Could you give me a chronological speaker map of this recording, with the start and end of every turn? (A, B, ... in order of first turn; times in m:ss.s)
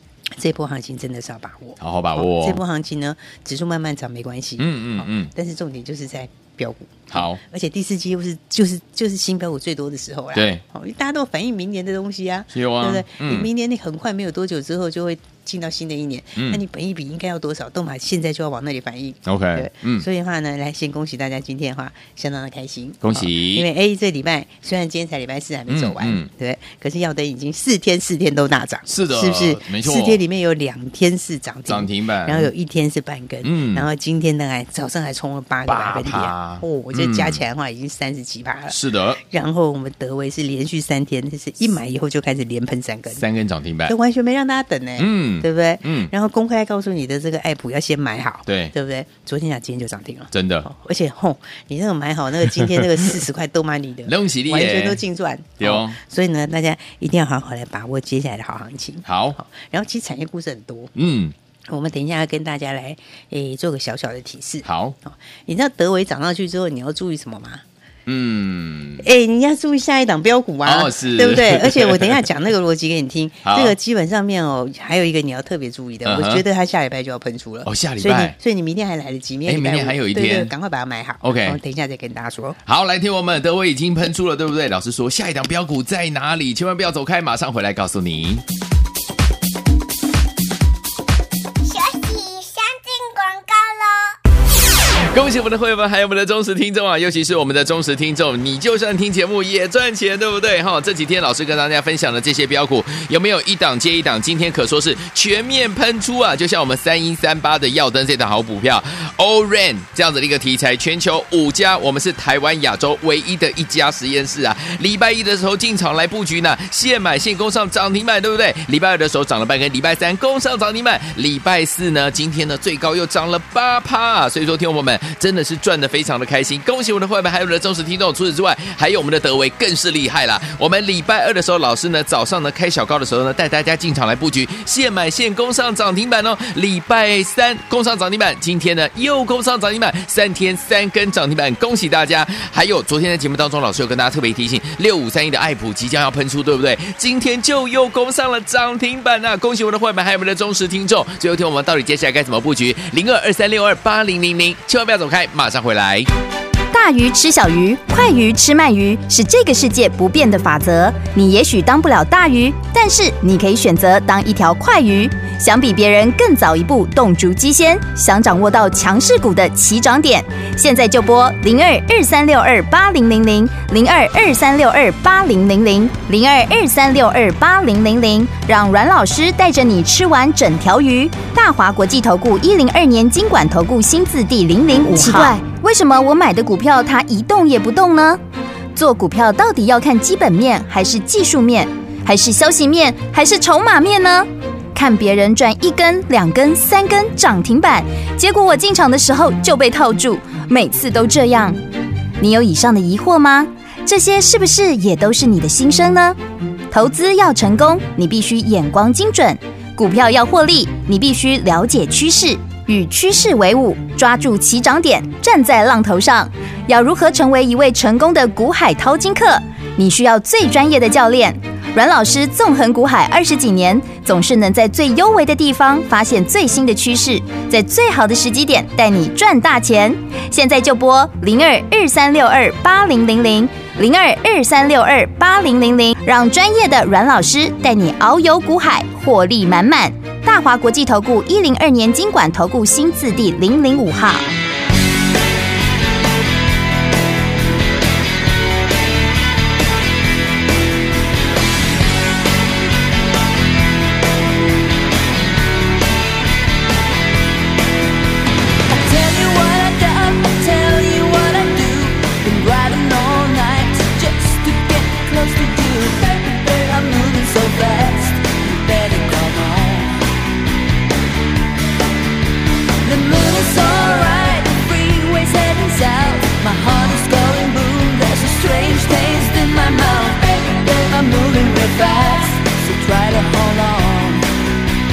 0:00.4-0:43.2 A
0:01.8-0:02.6 B
0:04.6-0:05.3 B
0:07.1-0:07.4 B
0:10.3-0:10.6 B
0:12.5-0:13.5 B
0:16.4-0:16.6 B
0:19.2-0:20.1 B
0:23.0-0:23.7 B
0:25.7-0:26.3 B
0:28.8-0:30.2 B
0:31.7-0:32.5 B
0:33.4-0:33.9 B
0:35.6-0:37.4 B
0:38.7-0:39.2 B
0:43.1-0:43.9 B
0:43.9-1:00.9 A
0:45.0-0:46.1 B
0:48.4-0:48.7 B
0:50.3-0:50.7 B
0:52.5-0:53.2 B
0:54.0-0:55.0 B
0:55.6-0:56.0 B
0:59.0-0:59.4 B
1:00.9-1:01.3 B
1:01.7-1:07.6 A
1:04.6-1:05.0 B
1:08.0-1:09.1 B
1:09.0-1:22.6 A
1:10.6-1:12.2 B
1:13.4-1:13.8 B
1:16.0-1:16.4 B
1:17.6-1:18.4 B
1:19.4-1:20.5 B
1:21.2-1:21.6 B
1:22.6-1:28.4 B
1:31.6-1:34.1 C
1:35.1-2:36.1 B
2:36.7-3:08.2 D
3:08.7-3:21.6 D
3:22.2-3:26.2 D
3:26.7-4:04.3 D
4:18.7-4:30.0 E
4:32.8-4:44.2 E